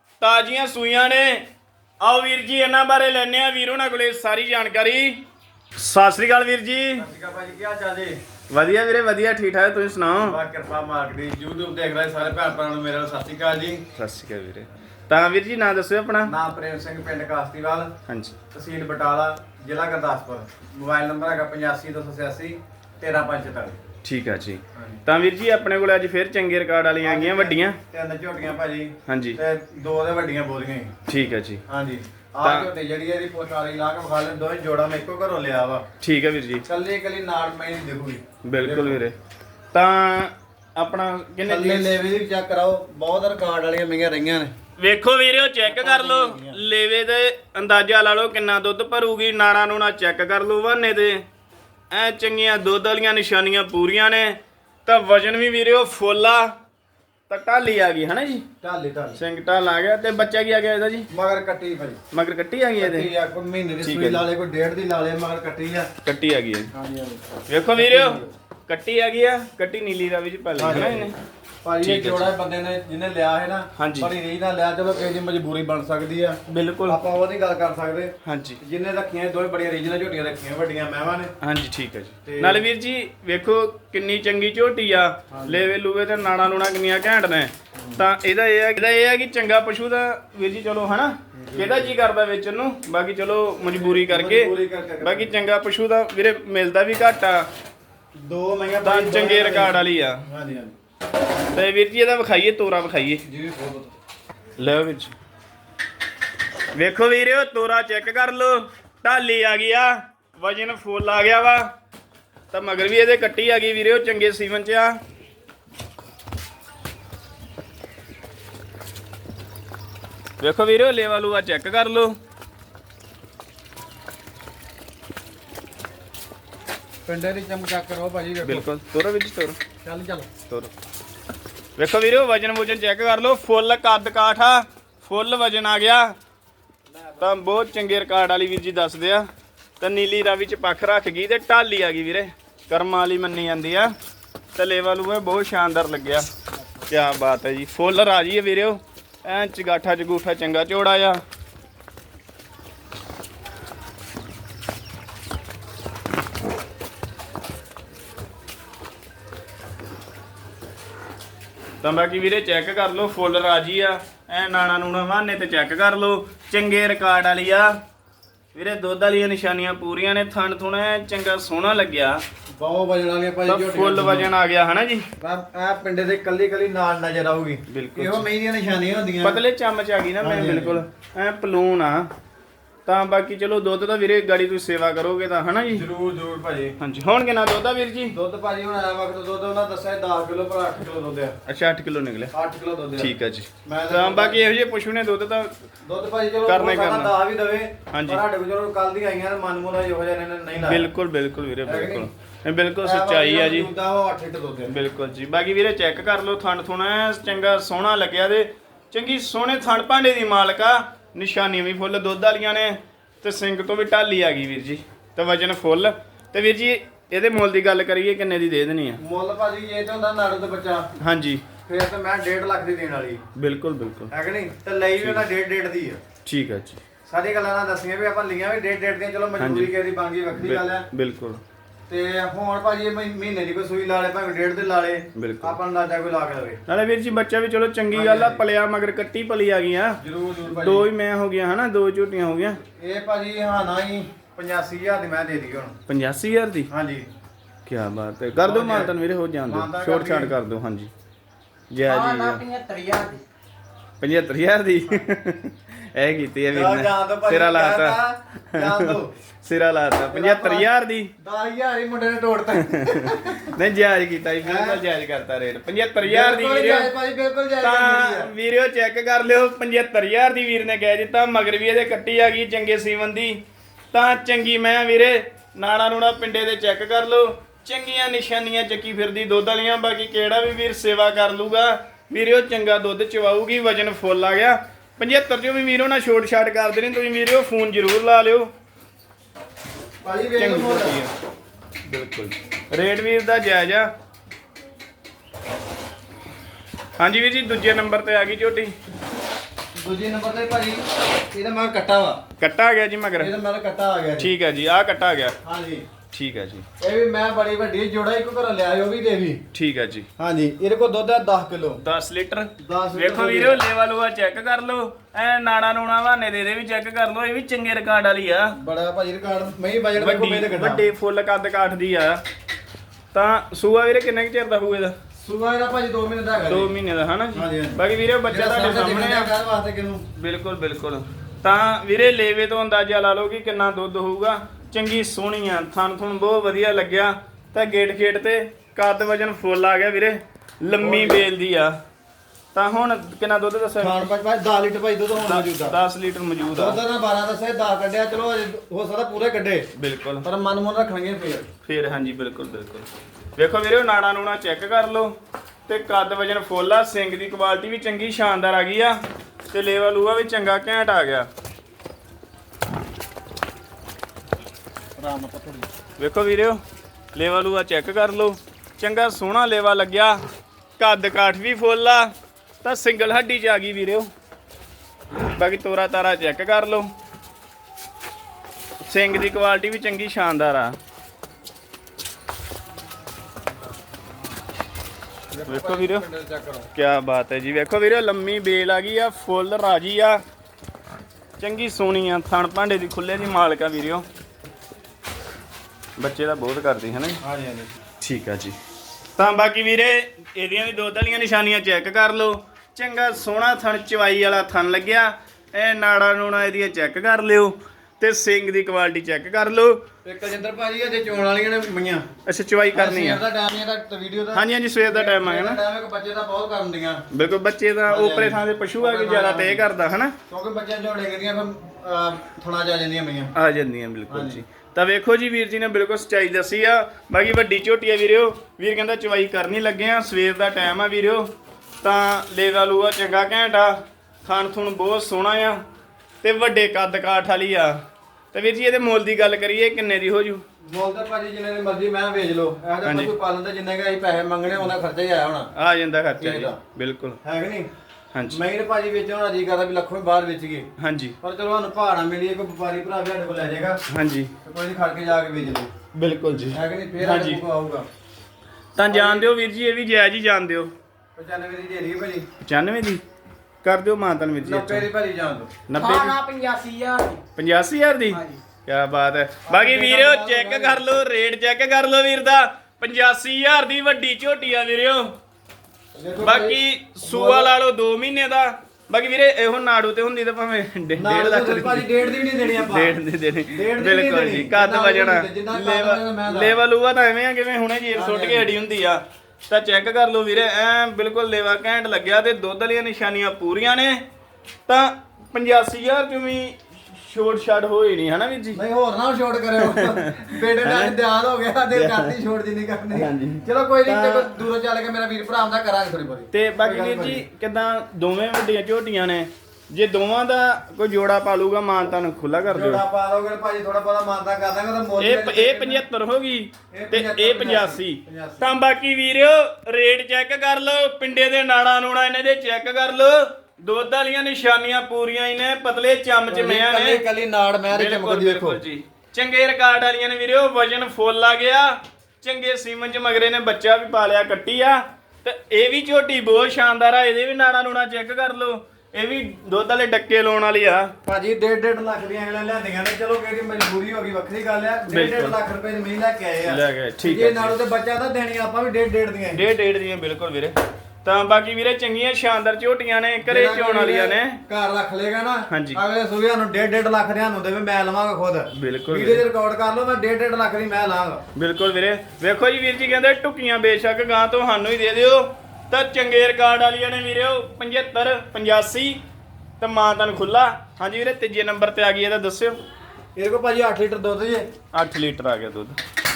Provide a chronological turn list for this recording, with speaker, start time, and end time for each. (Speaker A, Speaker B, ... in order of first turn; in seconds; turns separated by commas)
Speaker A: 0.2-1.4, Speaker A: 2.0-5.2, Speaker A: 5.8-7.1, Speaker B: 7.0-8.2, Speaker A: 8.5-10.4, Speaker B: 10.2-13.8, Speaker A: 13.9-16.3, Speaker B: 16.2-17.9, Speaker A: 18.1-18.4, Speaker B: 18.5-23.8, Speaker A: 24.0-27.8, Speaker B: 24.7-25.0, Speaker B: 27.0-30.9, Speaker A: 29.1-29.4, Speaker A: 31.1-31.6, Speaker B: 31.7-35.8, Speaker A: 32.4-32.7, Speaker A: 36.0-36.6, Speaker B: 36.6-39.0, Speaker A: 38.4-39.1, Speaker A: 39.7-42.0, Speaker B: 41.4-44.5, Speaker A: 44.8-51.2, Speaker B: 45.6-46.6, Speaker A: 51.9-56.5, Speaker A: 57.3-58.4, Speaker B: 58.6-59.2, Speaker A: 59.1-61.1, Speaker B: 61.1-62.0, Speaker A: 62.1-63.1, Speaker B: 62.8-65.9, Speaker A: 63.8-64.2, Speaker A: 66.0-66.7, Speaker B: 66.7-68.3, Speaker A: 67.5-71.2, Speaker B: 70.6-81.3, Speaker A: 71.8-72.3, Speaker A: 73.8-74.1, Speaker A: 76.5-77.0, Speaker A: 78.2-78.6, Speaker A: 81.4-97.5, Speaker B: 82.2-82.6, Speaker B: 85.3-85.7, Speaker B: 87.7-88.0, Speaker B: 91.3-91.9, Speaker B: 93.7-95.4, Speaker B: 98.2-100.7, Speaker A: 98.8-100.2, Speaker A: 101.5-103.2, Speaker B: 103.2-103.9, Speaker A: 104.6-105.1, Speaker A: 106.7-111.7, Speaker A: 112.5-115.0, Speaker A: 120.4-122.1, Speaker B: 127.0-128.7, Speaker A: 128.4-129.6, Speaker B: 129.8-130.3, Speaker A: 131.8-136.2, Speaker B: 136.9-137.3, Speaker A: 137.2-139.3, Speaker A: 139.8-143.9, Speaker A: 144.5-146.3, Speaker A: 146.9-151.2, Speaker A: 161.8-167.8, Speaker A: 168.5-172.2, Speaker B: 172.6-174.3, Speaker A: 173.4-175.0, Speaker B: 175.2-179.4, Speaker A: 177.7-178.2, Speaker A: 179.2-182.1, Speaker B: 180.2-180.8, Speaker A: 182.8-185.9, Speaker B: 185.7-186.8, Speaker A: 186.8-188.1, Speaker B: 188.1-191.3, Speaker A: 191.5-192.3, Speaker B: 192.3-194.5, Speaker A: 193.0-195.5, Speaker B: 195.8-200.8, Speaker A: 196.5-197.1, Speaker A: 197.9-198.2, Speaker A: 200.6-203.7, Speaker B: 201.6-202.1, Speaker B: 202.8-204.7, Speaker A: 204.7-219.0, Speaker B: 219.0-220.9, Speaker A: 221.0-221.4, Speaker B: 221.6-223.2, Speaker A: 223.3-224.1, Speaker B: 224.1-226.0, Speaker A: 225.0-225.2, Speaker A: 226.2-226.8, Speaker B: 227.1-230.8, Speaker A: 229.4-229.7, Speaker A: 230.3-231.4, Speaker B: 231.9-236.6, Speaker A: 235.2-235.6, Speaker A: 236.7-242.6, Speaker B: 237.9-238.4, Speaker B: 240.0-240.8, Speaker B: 242.8-245.8, Speaker A: 245.9-246.7, Speaker B: 246.7-247.1, Speaker A: 247.7-250.9, Speaker B: 248.4-248.9, Speaker B: 249.5-250.4, Speaker A: 251.7-252.4, Speaker C: 251.8-253.2, Speaker A: 254.0-261.1, Speaker B: 256.5-259.1, Speaker B: 260.1-260.7, Speaker B: 261.2-263.6, Speaker A: 262.5-266.9, Speaker B: 264.4-264.8, Speaker B: 266.0-268.3, Speaker A: 267.6-273.4, Speaker A: 273.9-288.5, Speaker B: 290.0-290.9, Speaker A: 290.4-291.1, Speaker A: 291.9-293.9, Speaker A: 297.0-298.8, Speaker B: 299.8-302.2, Speaker A: 302.4-303.3, Speaker B: 303.2-304.3, Speaker A: 304.2-305.4, Speaker B: 305.4-305.9, Speaker A: 306.1-306.6, Speaker B: 306.8-309.4, Speaker A: 309.5-310.1, Speaker B: 310.2-311.8, Speaker A: 311.8-318.5, Speaker B: 312.6-313.6, Speaker B: 318.5-320.9, Speaker A: 319.9-322.2, Speaker A: 323.1-324.9, Speaker B: 325.2-326.7, Speaker A: 326.5-329.3, Speaker B: 327.3-330.0, Speaker A: 330.1-341.8, Speaker B: 340.7-341.2, Speaker A: 342.5-344.1, Speaker B: 343.8-345.8, Speaker A: 345.2-346.8, Speaker B: 346.5-349.7, Speaker A: 349.7-350.2, Speaker B: 350.2-351.4, Speaker A: 351.6-355.1, Speaker A: 355.7-359.0, Speaker A: 359.5-361.3, Speaker B: 365.0-365.7, Speaker A: 366.0-366.6, Speaker A: 367.1-370.2, Speaker A: 370.8-374.1, Speaker A: 375.2-376.9, Speaker A: 378.9-380.8, Speaker B: 385.3-386.7, Speaker A: 385.5-386.0, Speaker A: 386.7-390.2, Speaker A: 391.4-394.1, Speaker A: 396.0-397.2, Speaker B: 397.2-397.7, Speaker A: 398.0-398.6, Speaker A: 399.2-409.8, Speaker B: 410.0-412.1, Speaker A: 412.2-413.2, Speaker B: 412.7-417.0, Speaker A: 414.3-415.6, Speaker A: 417.1-420.1, Speaker B: 417.9-419.7, Speaker B: 420.3-423.3, Speaker A: 423.3-431.3, Speaker B: 424.1-424.4, Speaker A: 431.8-435.6, Speaker A: 436.2-437.8, Speaker A: 438.3-440.4, Speaker B: 440.6-445.5, Speaker A: 442.8-443.1, Speaker A: 445.5-447.2, Speaker B: 446.2-446.6, Speaker B: 447.2-447.7, Speaker A: 448.1-448.4, Speaker B: 448.3-450.7, Speaker A: 450.8-451.1, Speaker B: 451.2-453.8, Speaker A: 453.9-454.3, Speaker B: 454.4-455.7, Speaker A: 455.9-457.4, Speaker B: 456.5-457.9, Speaker A: 458.7-460.7, Speaker B: 458.9-459.3, Speaker B: 461.1-462.3, Speaker A: 462.4-463.0, Speaker A: 463.6-464.9, Speaker B: 464.4-465.5, Speaker A: 465.7-466.2, Speaker C: 465.8-467.2, Speaker A: 467.3-475.1, Speaker C: 468.1-468.4, Speaker B: 469.4-470.8, Speaker B: 475.9-477.5, Speaker A: 476.2-494.0, Speaker B: 481.0-483.0, Speaker B: 483.5-486.6, Speaker B: 487.9-488.5, Speaker A: 494.7-498.6, Speaker B: 498.5-507.2, Speaker A: 499.6-500.9, Speaker A: 501.7-502.1, Speaker A: 502.9-504.4, Speaker A: 506.3-512.8, Speaker B: 512.5-515.8, Speaker A: 515.0-527.0, Speaker B: 516.7-518.5, Speaker B: 526.3-528.6, Speaker A: 527.7-540.9, Speaker B: 541.0-549.4, Speaker A: 544.9-545.4, Speaker A: 546.4-547.5, Speaker A: 549.3-554.4, Speaker B: 553.2-561.2, Speaker A: 555.5-555.8, Speaker A: 558.5-559.2, Speaker A: 561.3-569.0, Speaker A: 569.6-572.6, Speaker B: 573.1-574.5, Speaker A: 574.7-575.8